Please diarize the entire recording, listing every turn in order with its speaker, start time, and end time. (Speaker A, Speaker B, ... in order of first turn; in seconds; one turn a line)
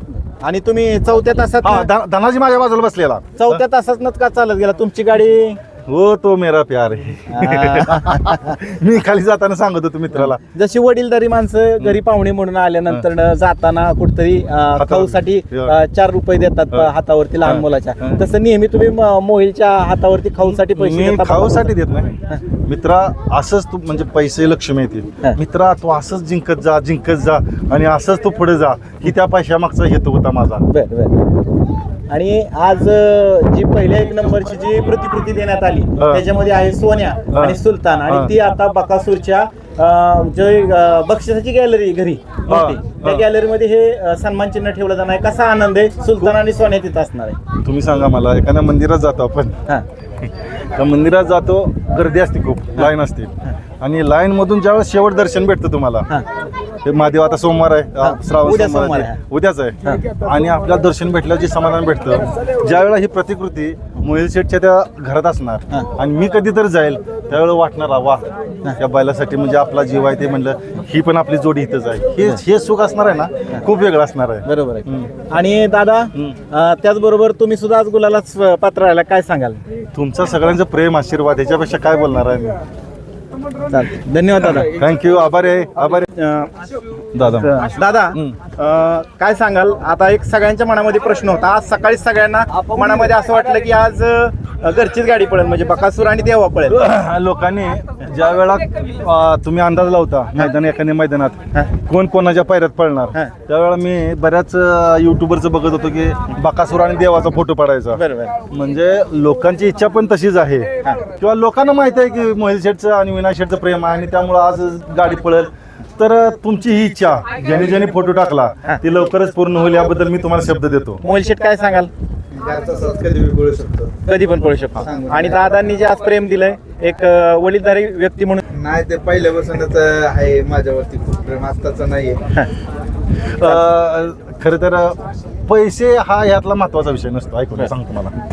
Speaker A: 0.2-1.9
Speaker B: 1.6-3.6
Speaker A: 3.4-5.6
Speaker B: 5.9-10.4
Speaker A: 7.3-8.6
Speaker A: 10.2-21.7
Speaker B: 14.8-15.8
Speaker B: 17.4-18.2
Speaker B: 20.6-22.1
Speaker B: 22.6-30.6
Speaker A: 30.7-31.3
Speaker A: 32.1-47.4
Speaker B: 36.0-36.2
Speaker B: 37.3-38.3
Speaker B: 42.5-43.2
Speaker B: 47.6-49.6
Speaker B: 50.2-56.1
Speaker B: 56.8-75.1
Speaker A: 58.0-59.2
Speaker A: 74.4-79.6
Speaker B: 79.9-82.6
Speaker A: 83.7-84.7
Speaker B: 84.7-86.1
Speaker A: 86.0-86.7
Speaker B: 87.1-87.5
Speaker A: 87.3-96.8
Speaker B: 96.7-121.0
Speaker A: 107.9-108.4
Speaker A: 121.0-121.9
Speaker C: 122.3-124.0
Speaker A: 124.0-128.4
Speaker C: 124.9-125.3
Speaker C: 128.5-132.2
Speaker B: 133.3-138.1